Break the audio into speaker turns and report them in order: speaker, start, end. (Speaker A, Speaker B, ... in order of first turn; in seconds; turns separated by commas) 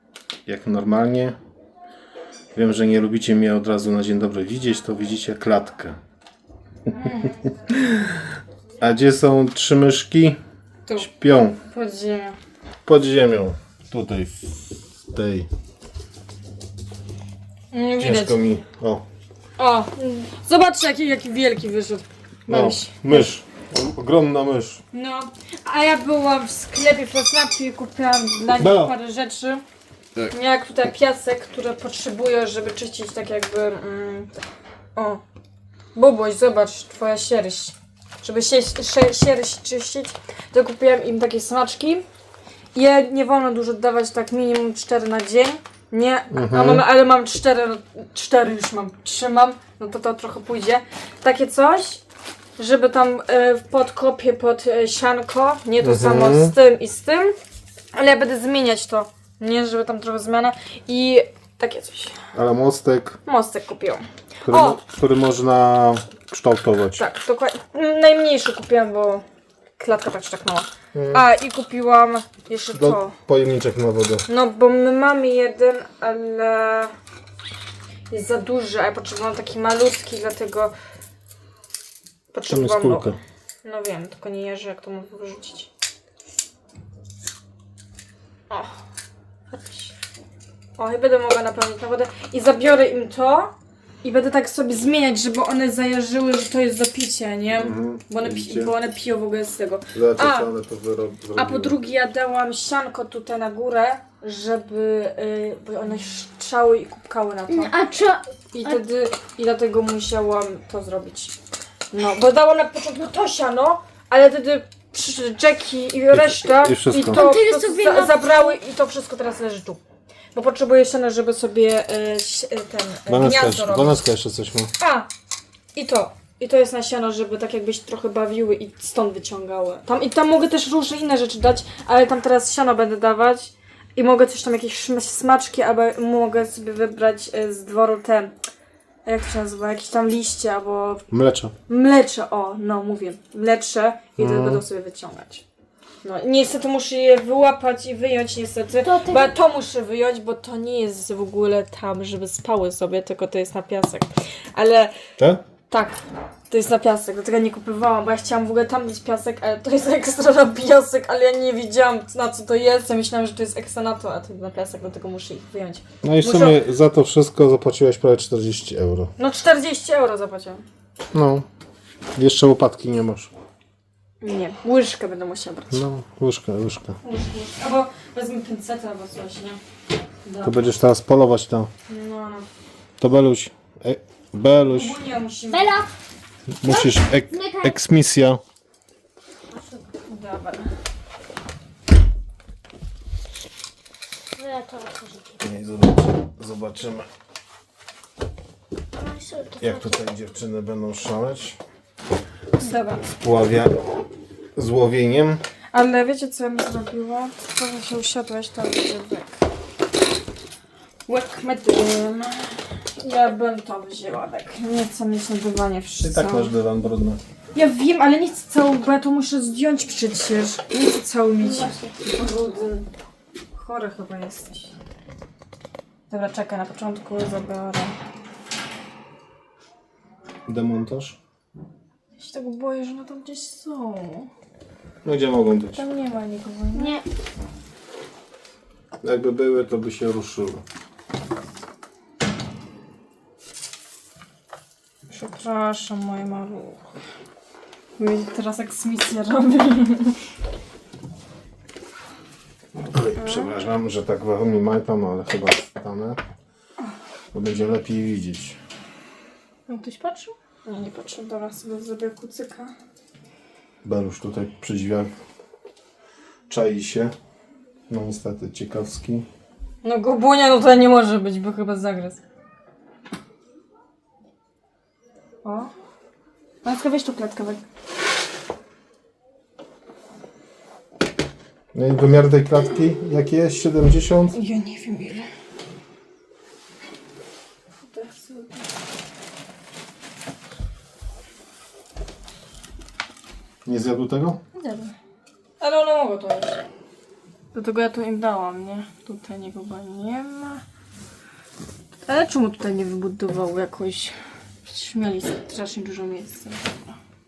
Speaker A: 0.5-1.4, Speaker A: 2.5-6.0, Speaker B: 7.0-7.3, Speaker A: 8.8-10.4, Speaker A: 11.0-11.6, Speaker B: 11.7-12.3, Speaker A: 12.8-15.5, Speaker B: 17.7-18.4, Speaker A: 18.0-19.0, Speaker B: 19.6-23.3, Speaker A: 22.5-24.8, Speaker B: 24.9-29.6, Speaker A: 28.5-28.9, Speaker B: 30.3-34.3, Speaker B: 34.9-35.2, Speaker B: 35.9-42.0, Speaker B: 42.7-52.0, Speaker A: 46.3-46.8, Speaker B: 52.6-57.4, Speaker A: 55.8-56.5, Speaker B: 57.9-62.2, Speaker A: 62.3-63.2, Speaker B: 63.2-64.8, Speaker A: 64.4-67.0, Speaker B: 67.0-69.2, Speaker B: 69.8-73.1, Speaker A: 70.9-71.2, Speaker A: 72.7-74.2, Speaker B: 74.3-76.9, Speaker B: 78.1-80.7, Speaker B: 82.3-83.1, Speaker A: 82.5-83.2, Speaker B: 83.6-85.7, Speaker B: 88.5-88.8, Speaker B: 89.5-89.9, Speaker B: 90.8-100.5, Speaker A: 97.5-98.7, Speaker A: 99.9-101.8, Speaker B: 101.3-107.7, Speaker C: 107.5-108.8, Speaker B: 108.5-111.3, Speaker B: 111.9-119.8, Speaker A: 116.1-117.2, Speaker C: 117.0-118.6, Speaker B: 120.3-124.0, Speaker A: 123.1-124.7, Speaker B: 124.8-125.1, Speaker B: 125.7-138.3, Speaker B: 139.0-141.0, Speaker A: 141.1-141.5, Speaker B: 141.7-145.4, Speaker A: 144.2-144.6, Speaker B: 146.0-154.9, Speaker C: 148.8-149.3, Speaker B: 155.7-166.6, Speaker A: 166.0-169.1, Speaker B: 169.2-170.6, Speaker A: 171.1-171.5, Speaker A: 172.1-173.3, Speaker B: 174.2-175.8, Speaker A: 175.7-177.0, Speaker B: 177.0-179.6, Speaker B: 180.2-180.6, Speaker A: 180.4-181.7, Speaker B: 181.9-182.5, Speaker A: 183.0-185.0, Speaker B: 184.7-185.8, Speaker C: 185.5-185.9, Speaker A: 186.6-188.4, Speaker C: 186.7-187.8, Speaker C: 189.5-189.9, Speaker B: 190.1-190.7, Speaker C: 194.3-195.4, Speaker A: 195.4-197.1, Speaker C: 198.9-200.0, Speaker A: 199.6-201.6, Speaker B: 202.6-203.1, Speaker A: 203.0-203.8, Speaker A: 204.5-205.4, Speaker B: 205.7-209.4, Speaker B: 211.1-216.5, Speaker A: 216.0-217.2, Speaker B: 217.5-222.9, Speaker C: 221.4-221.9, Speaker B: 223.5-224.7, Speaker B: 226.1-227.9, Speaker A: 230.5-231.2, Speaker B: 232.2-234.3, Speaker A: 235.0-235.8, Speaker B: 235.7-237.0, Speaker C: 236.7-237.0, Speaker A: 239.0-240.6, Speaker B: 245.1-246.8, Speaker B: 248.0-250.2, Speaker A: 252.8-256.2, Speaker B: 253.2-253.6, Speaker A: 257.3-258.6, Speaker B: 259.7-262.7, Speaker A: 263.8-265.1, Speaker A: 266.5-267.1, Speaker A: 267.9-269.2, Speaker B: 269.8-272.2, Speaker B: 275.4-275.7, Speaker B: 276.6-277.6, Speaker A: 281.7-284.4, Speaker B: 284.3-285.3, Speaker B: 287.8-288.7, Speaker A: 293.6-294.4, Speaker B: 294.5-294.9, Speaker B: 295.6-296.6, Speaker B: 297.5-300.6, Speaker B: 302.1-306.9